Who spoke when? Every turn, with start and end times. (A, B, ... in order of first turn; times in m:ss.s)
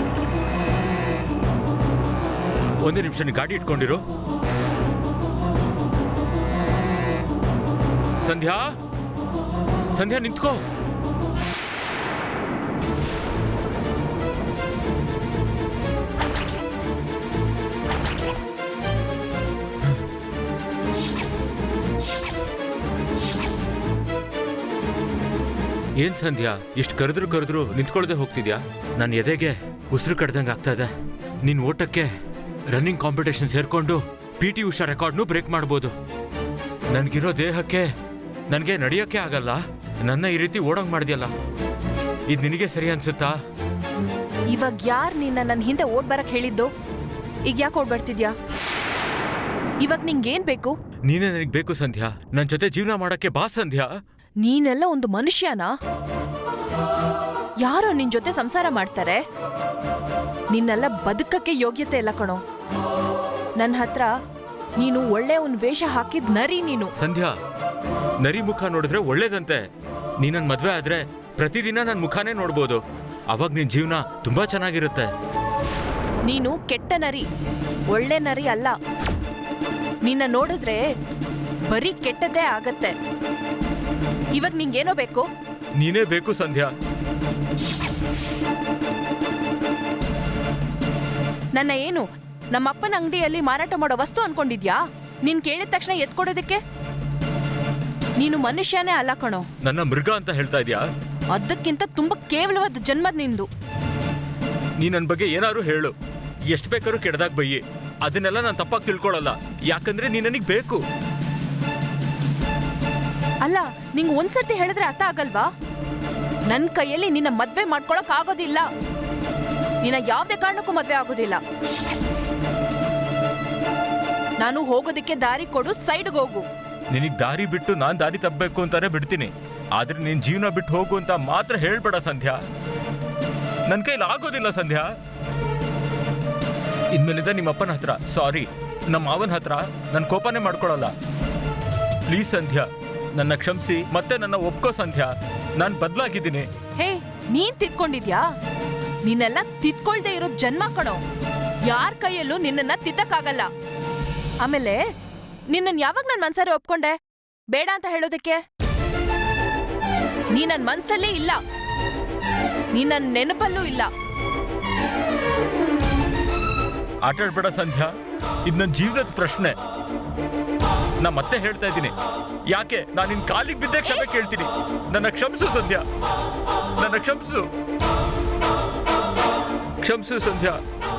0:02.8-0:04.0 A
0:08.2-0:08.7 A
0:09.9-0:10.6 A
0:26.0-0:30.9 A
0:31.4-0:32.1 A
0:32.7-0:35.9 A
0:36.9-0:37.9 A
0:38.5-0:41.3 A
0:42.3-0:43.3 A
0:44.5-0:46.7 B
0:47.5-0:48.4 B
0:49.8-0:50.7 B
0:51.0-0:53.9 A
0:54.4-0:55.7 B
0:57.6-0:59.2 B
1:00.5-1:02.4 B
1:03.6-1:04.1 B
1:04.8-1:06.9 B
1:07.0-1:07.4 A
1:08.2-1:09.6 A
1:10.2-1:15.1 A
1:16.2-1:17.3 B
1:17.9-1:18.8 B
1:20.0-1:20.8 B
1:21.7-1:22.9 B
1:24.3-1:25.3 B
1:25.8-1:26.7 A
1:31.5-1:36.6 B
1:38.2-1:39.4 B
1:39.6-1:40.9 A
1:41.3-1:43.5 B
1:44.8-1:45.9 A
1:46.5-1:50.8 A
1:53.4-1:55.5 B
1:56.5-1:58.7 B
1:59.8-2:01.4 B
2:04.4-2:06.5 B
2:06.9-2:12.4 A
2:13.7-2:14.9 A
2:16.9-2:20.9 A
2:22.1-2:26.5 A
2:26.8-2:28.2 B
2:29.0-2:31.0 B
2:31.7-2:33.5 B
2:34.4-2:34.8 B
2:35.5-2:36.9 B
2:37.5-2:38.4 B
2:40.3-2:41.4 B
2:42.7-2:43.9 B
2:47.0-2:47.9 A
2:48.4-2:49.5 A
2:51.0-2:51.9 A
2:52.5-2:55.8 A
2:56.8-2:57.5 A
2:59.8-3:00.6 A